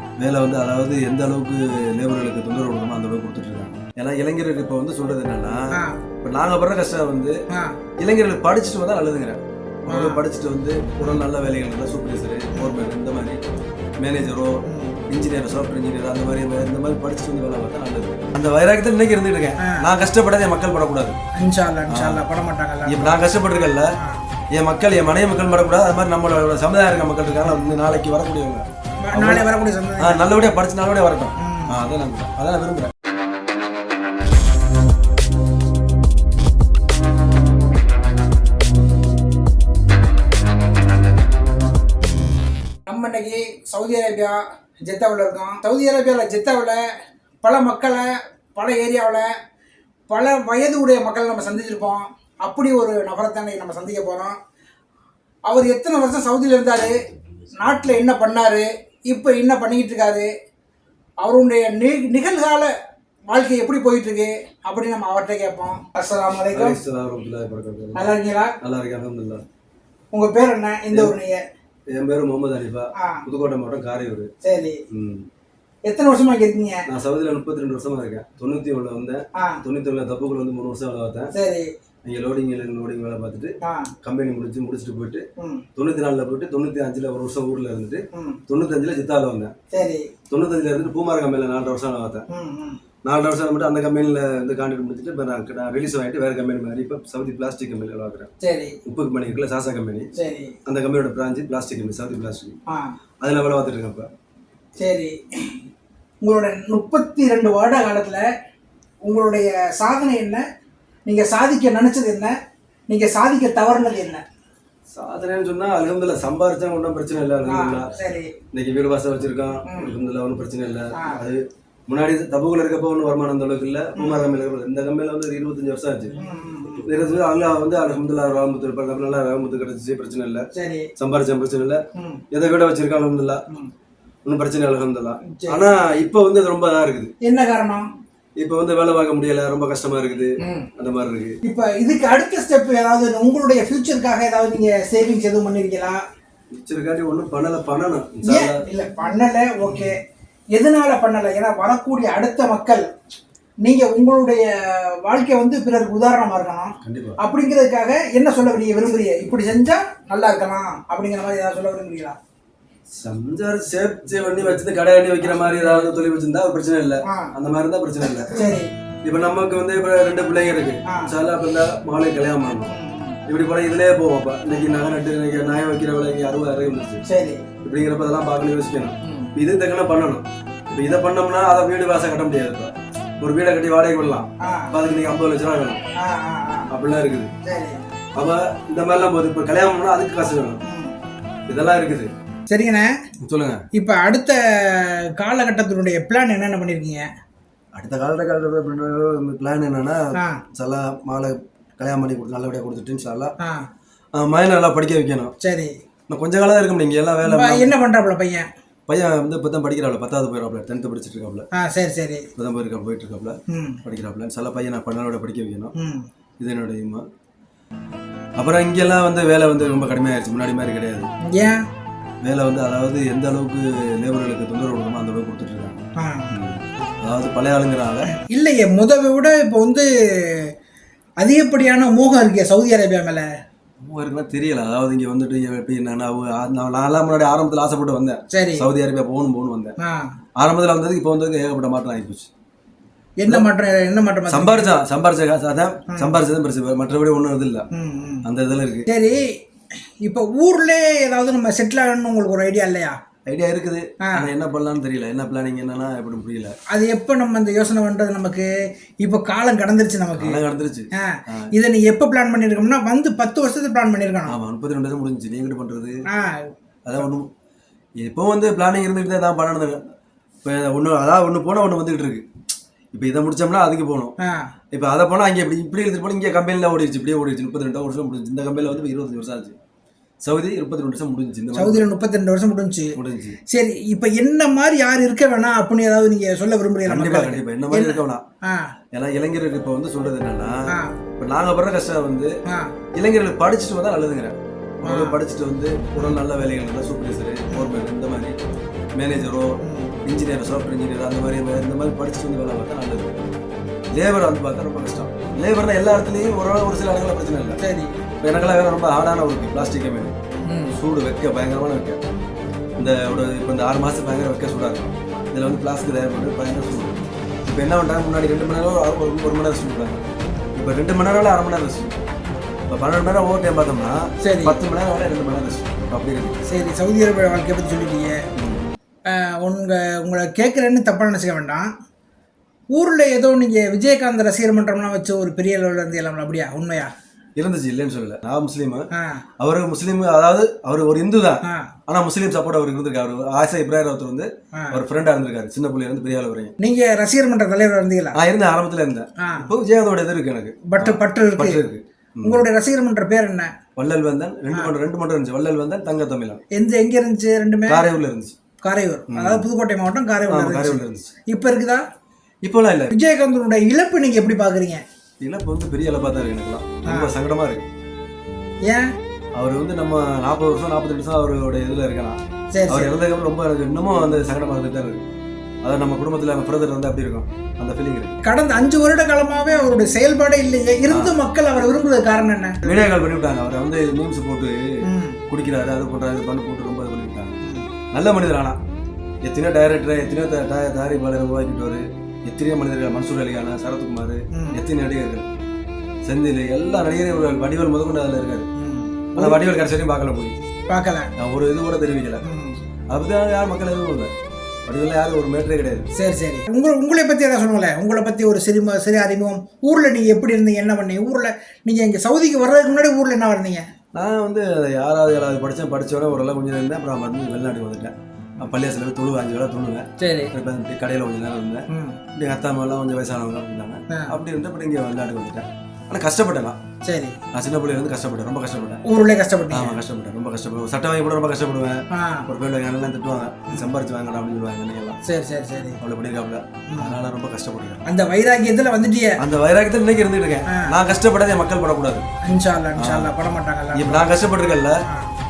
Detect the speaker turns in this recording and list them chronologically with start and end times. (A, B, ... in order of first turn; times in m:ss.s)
0:00.2-0:05.7 A
0:05.7-0:06.0 B
0:06.2-0:07.4 A
0:08.0-0:13.4 A
0:09.9-0:10.2 B
0:14.0-0:21.2 A
0:14.7-0:15.0 B
0:21.4-0:23.2 B
0:21.9-0:22.2 A
0:22.9-0:23.9 A
0:24.6-0:29.4 A
0:29.0-0:30.2 B
0:30.0-0:32.9 A
0:31.4-0:31.8 B
0:42.9-0:46.8 B
0:47.4-0:49.3 B
0:50.1-0:54.4 B
0:55.5-0:56.9 B
0:57.6-1:00.3 B
1:01.2-1:02.7 B
1:03.3-1:06.8 B
1:06.5-1:09.4 A
1:08.0-1:08.6 B
1:10.1-1:11.4 B
1:11.9-1:14.3 A
1:14.4-1:14.8 B
1:14.9-1:15.3 A
1:15.9-1:16.8 B
1:16.9-1:21.3 A
1:21.3-1:21.7 B
1:22.1-1:29.5 A
1:23.6-1:23.9 B
1:25.4-1:25.6 B
1:28.1-1:28.4 B
1:29.7-1:30.1 B
1:30.3-1:32.3 A
1:32.3-1:32.8 B
1:33.0-1:38.3 A
1:38.4-1:38.8 B
1:38.9-1:40.1 A
1:40.2-1:40.6 B
1:40.7-1:42.6 A
1:42.7-1:43.0 B
1:43.2-1:44.1 A
1:44.8-1:45.6 B
1:46.2-1:48.2 B
1:49.0-1:50.4 B
1:51.1-1:52.4 B
1:52.9-1:54.2 B
1:55.0-1:57.9 A
1:57.5-1:58.3 B
1:58.5-2:06.1 A
1:59.7-1:59.9 B
2:01.0-2:01.2 B
2:04.0-2:04.3 B
2:06.2-2:06.9 B
2:06.8-2:11.8 A
2:10.5-2:10.9 B
2:12.0-2:12.2 B
2:12.3-2:13.4 A
2:14.2-2:17.1 A
2:15.3-2:15.6 B
2:17.2-2:17.9 B
2:18.4-2:21.4 A
2:20.4-2:20.7 B
2:21.4-2:26.0 B
2:26.5-2:28.6 A
2:28.2-2:30.0 B
2:30.6-2:32.8 B
2:33.6-2:42.2 B
2:36.8-2:37.2 A
2:43.0-2:48.4 A
2:48.3-2:48.7 B
2:49.0-2:52.7 A
2:52.7-2:53.2 B
2:53.3-2:57.0 A
2:57.1-2:57.4 B
2:57.6-3:05.8 A
2:59.0-2:59.3 B
3:04.4-3:04.7 B
3:06.0-3:06.7 B
3:06.7-3:07.3 A
3:07.4-3:07.8 B
3:08.2-3:10.6 A
3:10.7-3:11.0 B
3:11.5-3:12.1 A
3:12.5-3:12.9 B
3:13.2-3:13.6 A
3:13.7-3:17.1 B
3:17.8-3:23.3 A
3:20.2-3:20.4 B
3:24.2-3:25.3 A
3:25.4-3:25.7 B
3:26.1-3:27.7 A
3:27.2-3:28.5 B
3:28.9-3:31.5 A
3:31.6-3:32.3 B
3:32.4-3:35.7 A
3:33.5-3:33.8 B
3:35.8-3:36.0 B
3:36.4-3:37.0 A
3:38.4-3:41.1 A
3:41.3-3:41.6 B
3:42.2-3:45.8 A
3:46.0-3:46.3 B
3:46.3-3:48.1 A
3:48.1-3:50.5 B
3:51.2-3:53.3 B
3:53.8-3:59.8 A
3:58.3-3:58.7 B
3:59.8-4:00.1 B
4:00.4-4:02.3 A
4:03.2-4:04.8 B
4:04.3-4:07.7 A
4:07.7-4:08.2 B
4:08.2-4:08.9 A
4:08.9-4:09.3 B
4:10.0-4:13.0 B
4:13.3-4:16.6 A
4:16.7-4:18.5 B
4:19.0-4:20.4 B
4:20.2-4:21.5 A
4:21.0-4:24.4 B
4:24.3-4:26.0 A
4:26.1-4:26.5 B
4:26.9-4:27.3 A
4:28.0-4:29.8 A
4:30.4-4:32.3 A
4:32.9-4:34.1 A
4:34.2-4:34.5 B
4:34.7-4:39.6 A
4:40.2-4:41.8 A
4:41.6-4:42.9 B
4:43.0-4:43.4 A
4:43.5-4:48.7 B
4:46.9-4:48.2 A
4:48.9-4:50.6 A
4:51.2-4:52.3 A
4:52.5-4:52.7 B
4:53.0-4:58.4 A
4:54.8-4:55.2 B
4:57.5-4:57.8 B
4:59.0-5:03.2 A
4:59.6-4:59.9 B
5:03.9-5:07.6 A
5:07.6-5:07.9 B
5:08.2-5:10.2 A
5:10.5-5:10.7 B
5:10.7-5:12.0 A
5:12.8-5:20.0 A
5:20.6-5:22.0 A
5:22.7-5:26.4 A
5:24.2-5:24.6 B
5:26.5-5:28.2 B
5:28.4-5:28.7 A
5:29.1-5:31.7 B
5:32.7-5:36.9 B
5:37.4-5:38.9 A
5:38.9-5:39.2 B
5:39.4-5:46.5 A
5:46.6-5:48.2 B
5:48.2-5:52.4 A
5:49.2-5:49.5 B
5:50.7-5:51.6 B
5:52.2-5:53.5 B
5:53.8-5:56.4 A
5:56.5-5:57.8 B
5:57.7-5:58.4 A
5:58.6-6:01.8 B
5:59.1-5:59.5 A
6:00.3-6:01.1 A
6:02.4-6:02.9 A
6:02.9-6:04.8 B
6:05.2-6:07.7 A
6:06.9-6:07.1 B
6:09.4-6:15.1 A
6:12.5-6:12.9 B
6:15.6-6:18.2 A
6:18.2-6:22.9 B
6:20.9-6:21.1 A
6:22.6-6:24.7 A
6:24.9-6:25.2 B
6:25.3-6:27.4 A
6:27.9-6:28.6 A
6:29.2-6:35.3 A
6:34.3-6:34.6 B
6:36.1-6:38.5 A
6:38.6-6:39.5 B
6:39.2-6:40.4 A
6:40.7-6:41.1 B
6:41.2-6:42.2 A
6:42.2-6:42.6 B
6:42.9-6:44.1 A
6:44.7-6:45.9 A
6:46.0-6:53.7 B
6:54.0-7:06.6 A
7:00.0-7:00.3 B
7:01.7-7:02.0 B
7:06.8-7:07.2 B
7:07.3-7:08.8 A
7:08.9-7:09.8 B
7:09.5-7:15.0 A
7:11.9-7:12.3 B
7:15.1-7:15.8 B
7:15.8-7:17.8 A
7:16.7-7:17.0 B
7:17.9-7:19.2 B
7:19.2-7:22.0 A
7:22.2-7:24.1 B
7:22.8-7:23.1 A
7:23.8-7:24.8 A